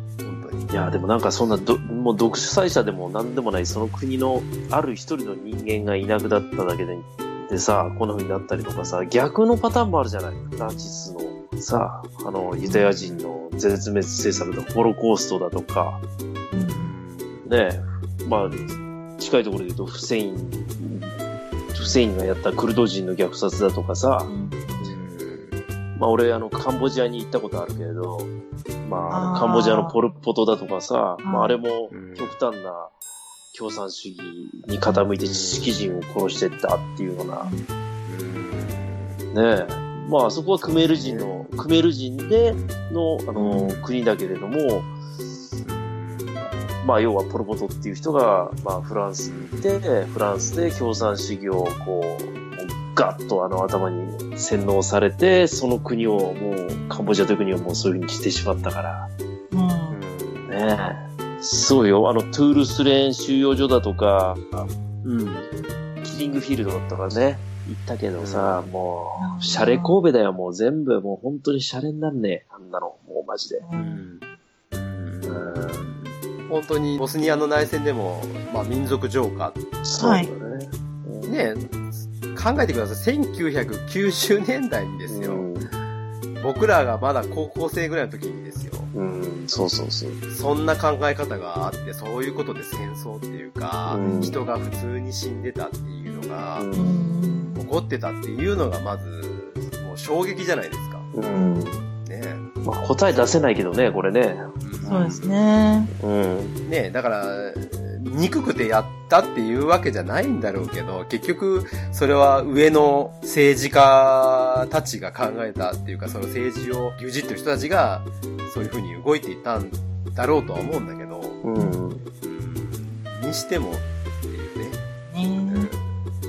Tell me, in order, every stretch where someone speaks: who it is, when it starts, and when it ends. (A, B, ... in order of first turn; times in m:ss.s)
0:00.2-0:00.7 A
0:00.7-0:16.0 B
0:00.7-0:01.1 C
0:08.8-0:09.1 A
0:12.3-0:13.3 A
0:12.6-0:12.9 C
0:14.2-0:14.5 A
0:16.5-0:16.9 C
0:16.7-0:17.5 A
0:17.4-0:21.2 B
0:21.7-0:24.3 B
0:21.8-0:22.4 A
0:24.3-0:25.0 C
0:24.8-0:25.6 A
0:26.0-0:28.3 B
0:28.8-0:32.9 B
0:29.1-0:29.9 C
0:31.2-0:31.6 C
0:31.9-0:32.4 A
0:33.5-0:37.5 B
0:35.2-0:35.8 A
0:37.4-0:37.7 C
0:38.1-0:39.3 A
0:39.3-0:44.9 B
0:40.6-0:41.4 A
0:42.5-0:42.8 A
0:43.4-0:43.8 C
0:43.6-0:43.9 A
0:45.6-0:46.5 A
0:46.8-0:59.1 B
0:49.3-0:49.7 A
0:59.5-1:00.0 C
0:59.9-1:00.5 A
1:00.5-1:04.7 B
1:05.0-1:05.5 A
1:06.0-1:13.7 B
1:08.2-1:08.7 A
1:09.2-1:10.0 C
1:13.6-1:14.0 C
1:13.8-1:19.6 A
1:15.3-1:15.9 B
1:19.8-1:21.4 B
1:20.0-1:20.3 C
1:21.3-1:25.5 A
1:25.1-1:25.7 B
1:26.4-1:28.9 A
1:28.9-1:30.2 B
1:30.3-1:36.7 A
1:33.9-1:34.4 B
1:34.0-1:34.4 C
1:36.6-1:36.9 B
1:36.7-1:37.6 C
1:37.6-1:41.1 A
1:41.1-1:41.9 B
1:41.4-1:41.7 C
1:42.0-1:42.5 A
1:42.6-1:45.2 B
1:43.1-1:43.8 A
1:44.6-1:45.4 A
1:44.8-1:45.9 C
1:45.9-1:46.6 B
1:46.7-2:01.4 A
2:01.4-2:02.0 B
2:02.2-2:04.8 A
2:05.1-2:05.7 C
2:05.4-2:05.8 A